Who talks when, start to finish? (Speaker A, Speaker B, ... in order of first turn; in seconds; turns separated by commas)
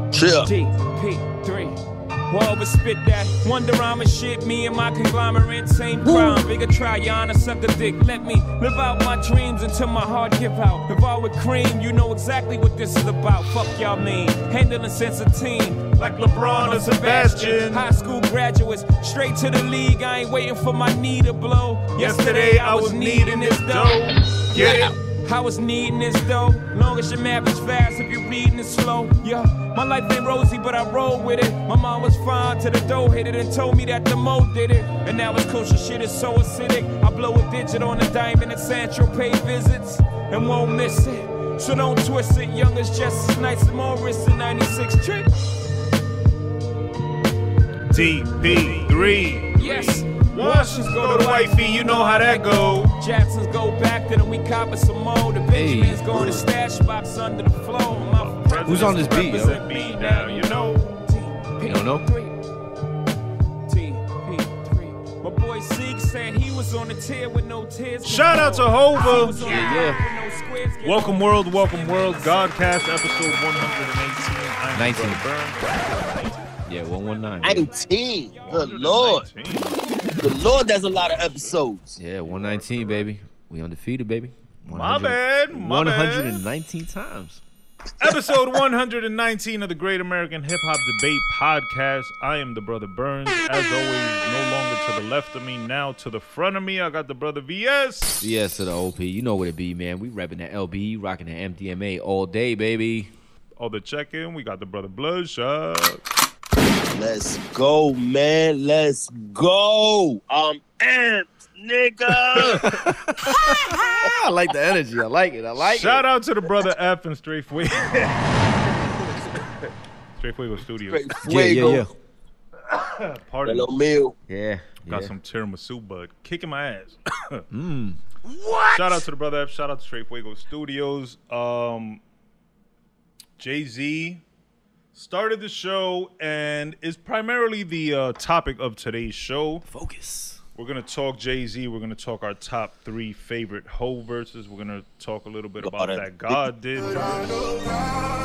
Speaker A: 0.1-0.5, Speaker B: 0.4-45.3, Speaker C: 16.0-17.9, Speaker C: 21.9-24.9, Speaker A: 24.6-24.9, Speaker C: 47.9-53.0, Speaker B: 48.9-62.4, Speaker D: 55.5-56.1, Speaker A: 56.1-56.4, Speaker C: 57.9-60.9, Speaker D: 58.7-59.6, Speaker D: 61.6-62.1, Speaker B: 63.7-73.4, Speaker C: 68.0-69.7, Speaker D: 69.4-70.0, Speaker C: 70.8-76.5, Speaker D: 74.7-75.2, Speaker D: 76.7-77.7, Speaker A: 77.4-79.3, Speaker B: 78.2-78.7, Speaker C: 78.5-79.8, Speaker A: 80.2-82.0, Speaker C: 81.0-81.5, Speaker D: 82.0-87.4, Speaker C: 82.2-83.1, Speaker C: 84.7-86.4, Speaker C: 88.0-98.2, Speaker D: 98.2-103.1, Speaker C: 103.6-106.0, Speaker A: 106.9-112.7, Speaker D: 112.4-116.0, Speaker C: 115.6-118.4, Speaker C: 120.2-121.1, Speaker A: 120.9-121.9, Speaker D: 121.2-121.9, Speaker C: 123.0-123.8, Speaker A: 123.4-124.1, Speaker D: 124.3-125.1, Speaker C: 124.9-127.4, Speaker D: 127.5-128.0, Speaker C: 128.6-132.0, Speaker C: 133.4-134.2, Speaker C: 134.9-139.7, Speaker D: 139.7-140.4, Speaker C: 140.6-147.6, Speaker A: 145.6-146.4